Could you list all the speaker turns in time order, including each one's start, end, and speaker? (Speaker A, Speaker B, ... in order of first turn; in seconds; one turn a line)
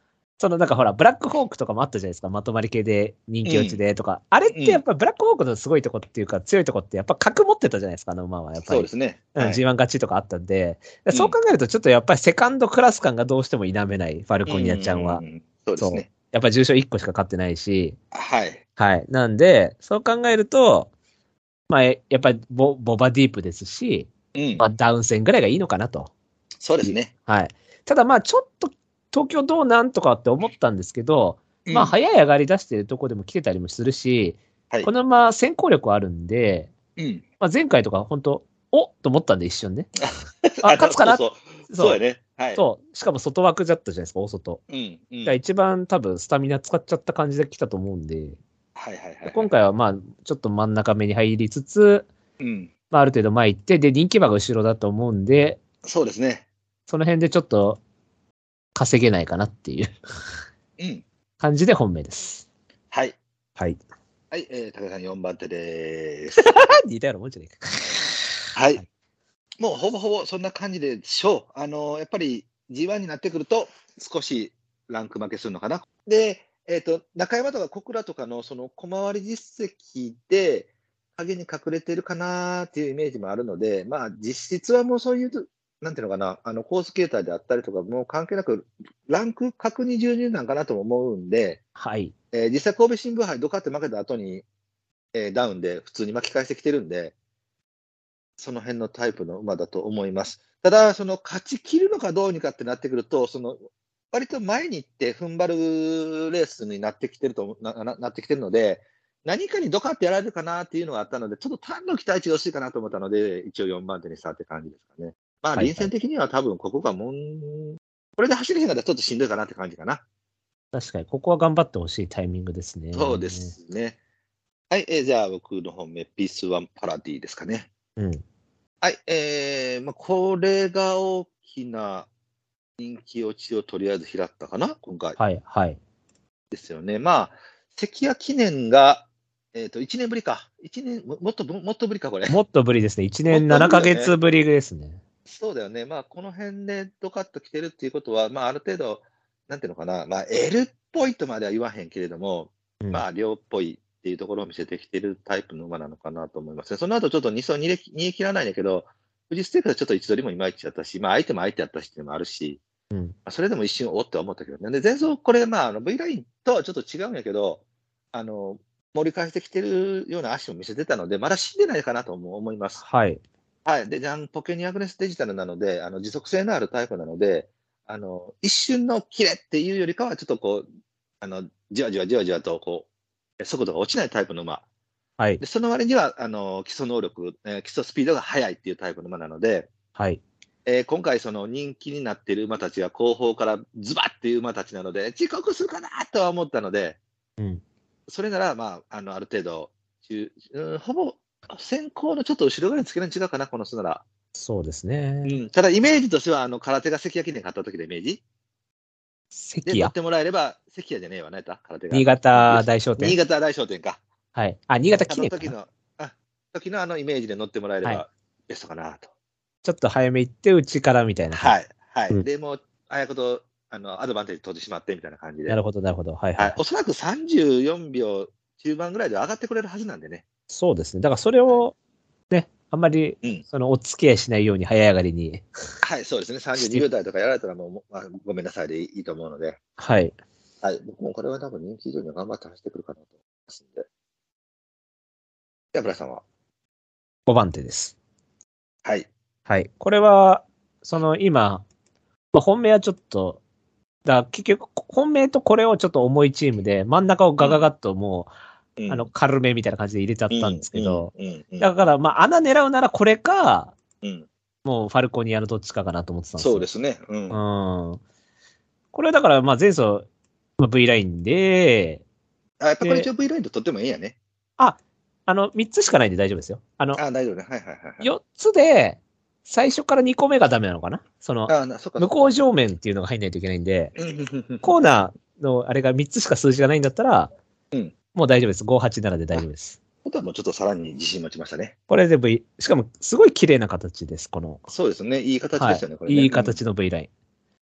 Speaker A: 0.4-15.2
Speaker B: 3.4-3.8
Speaker B: 4.5-4.8
Speaker B: 8.6-9.6
Speaker B: 11.1-11.3
Speaker B: 14.5-16.1
Speaker A: 15.8-18.0
Speaker B: 18.1-18.6
Speaker A: 18.8-20.9
Speaker A: 21.7-26.1
Speaker B: 24.3-24.6
Speaker B: 26.6-27.1
Speaker A: 26.8-36.7
Speaker B: 31.6-31.9
Speaker B: 37.0-37.2
Speaker A: 37.4-39.9
Speaker B: 40.0-42.6
Speaker A: 40.6-42.0
Speaker A: 42.5-44.6
Speaker B: 44.7-45.4
Speaker A: 45.2-48.4
Speaker B: 48.7-49.5
Speaker A: 49.2-52.1
Speaker B: 52.4-52.7
Speaker A: 52.9-55.6
Speaker B: 55.8-56.4
Speaker A: 56.9-57.8
Speaker A: 58.7-59.9
Speaker B: 60.8-61.0
Speaker A: 61.4-62.4
Speaker B: 62.9-63.2
Speaker B: 64.3-66.4
Speaker A: 66.4-68.8
Speaker B: 68.5-68.8
Speaker B: 69.6-91.6
Speaker A: 91.8-92.1
Speaker B: 92.3-94.4
Speaker B: 95.1-97.1
Speaker B: 98.4-103.6
Speaker B: 104.1-120.0
Speaker A: 115.5-115.9
Speaker A: 120.7-123.5
Speaker B: 122.9-124.0
Speaker B: 124.7-127.7
Speaker A: 128.0-128.2
Speaker B: 128.8-132.1
Speaker B: 132.8-135.2
Speaker A: 135.2-135.8
Speaker B: 136.5-142.4
Speaker A: 142.3-145.0
Speaker B: 143.3-144.1
Speaker B: 145.3-162.6
Speaker B: 163.2-167.6
Speaker B: 168.1-172.8
Speaker A: 172.8-173.2
Speaker B: 173.6-180.6
Speaker B: 181.2-182.9
Speaker B: 183.4-184.6
Speaker B: 185.4-189.7
Speaker A: 189.9-190.2
Speaker B: 190.7-197.0
Speaker B: 198.1-204.0
Speaker A: 204.3-205.4
Speaker B: 205.2-208.2
Speaker A: 209.3-209.9
Speaker B: 209.7-214.0
Speaker A: 211.9-213.2
Speaker A: 214.3-215.5
Speaker B: 214.9-219.1
Speaker A: 219.6-221.5
Speaker B: 221.3-225.6
Speaker A: 225.5-226.6
Speaker B: 226.4-230.2
Speaker A: 230.5-231.7
Speaker A: 232.3-235.4
Speaker B: 235.8-239.6
Speaker A: 236.6-236.8
Speaker A: 239.8-240.1
Speaker B: 240.6-243.8
Speaker B: 245.7-246.2
Speaker A: 247.3-247.9
Speaker A: 249.5-251.6
Speaker A: 252.3-253.4
Speaker A: 254.0-258.3
Speaker B: 258.8-259.1
Speaker A: 258.9-263.8
Speaker B: 260.3-261.8
Speaker B: 264.0-264.3
Speaker A: 264.6-266.7
Speaker B: 266.4-267.4
Speaker A: 267.3-268.0
Speaker A: 268.9-270.1
Speaker A: 270.6-272.0
Speaker B: 272.6-274.2
Speaker A: 272.8-273.1
Speaker A: 274.6-277.0
Speaker B: 276.9-278.1
Speaker A: 278.0-283.9
Speaker B: 281.5-282.1
Speaker B: 283.9-284.8
Speaker A: 284.6-287.3
Speaker A: 288.1-289.8
Speaker B: 290.0-291.7
Speaker A: 291.9-294.6
Speaker B: 294.7-296.6
Speaker A: 295.6-297.1